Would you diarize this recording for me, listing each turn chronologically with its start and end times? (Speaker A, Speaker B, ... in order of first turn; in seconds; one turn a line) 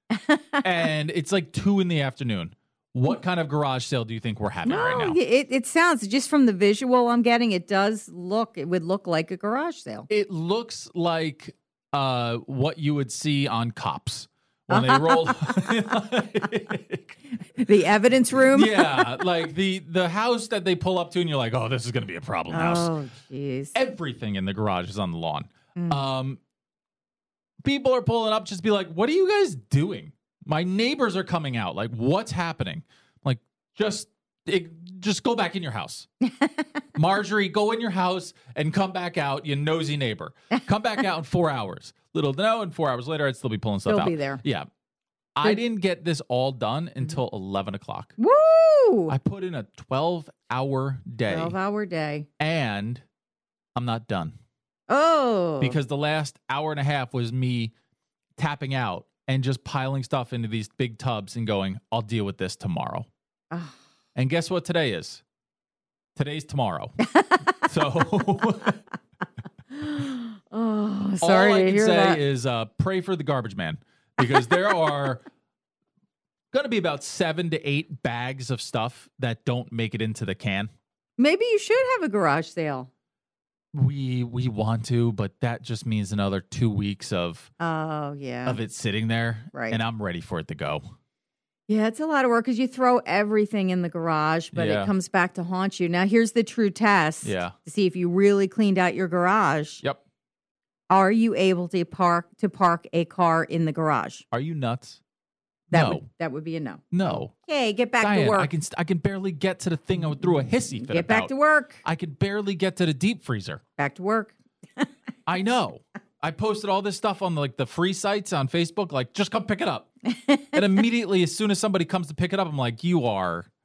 Speaker A: 0.6-5.2
Speaker B: 4.6-10.1
Speaker A: 10.1-17.2
Speaker B: 14.7-15.5
Speaker B: 17.6-19.1
Speaker A: 18.5-22.9
Speaker B: 22.5-23.7
Speaker A: 23.7-26.4
Speaker B: 25.8-26.0
Speaker A: 27.6-36.1
Speaker A: 37.0-44.7
Speaker B: 43.9-44.4
Speaker A: 45.4-48.1
Speaker B: 48.2-49.2
Speaker A: 49.1-51.6
Speaker B: 51.3-52.3
Speaker A: 52.4-53.0
Speaker A: 53.8-54.4
Speaker B: 54.9-55.8
Speaker A: 55.6-57.7
Speaker A: 58.4-63.1
Speaker B: 63.5-63.8
Speaker A: 64.2-65.2
Speaker A: 66.2-67.0
Speaker B: 67.0-67.5
Speaker A: 67.6-68.8
Speaker B: 69.7-72.2
Speaker A: 71.2-75.2
Speaker A: 76.5-80.7
Speaker B: 81.2-82.9
Speaker A: 83.7-87.5
Speaker B: 87.6-88.6
Speaker A: 88.5-90.8
Speaker B: 89.5-89.8
Speaker B: 91.7-99.8
Speaker A: 94.5-94.9
Speaker A: 97.2-97.5
Speaker B: 100.9-104.2
Speaker A: 104.3-105.0
Speaker B: 105.7-108.5
Speaker A: 105.7-106.0
Speaker A: 106.9-107.3
Speaker A: 108.0-113.6
Speaker B: 110.1-111.8
Speaker B: 113.8-114.9
Speaker A: 115.3-119.9
Speaker B: 120.1-120.6
Speaker A: 120.5-123.5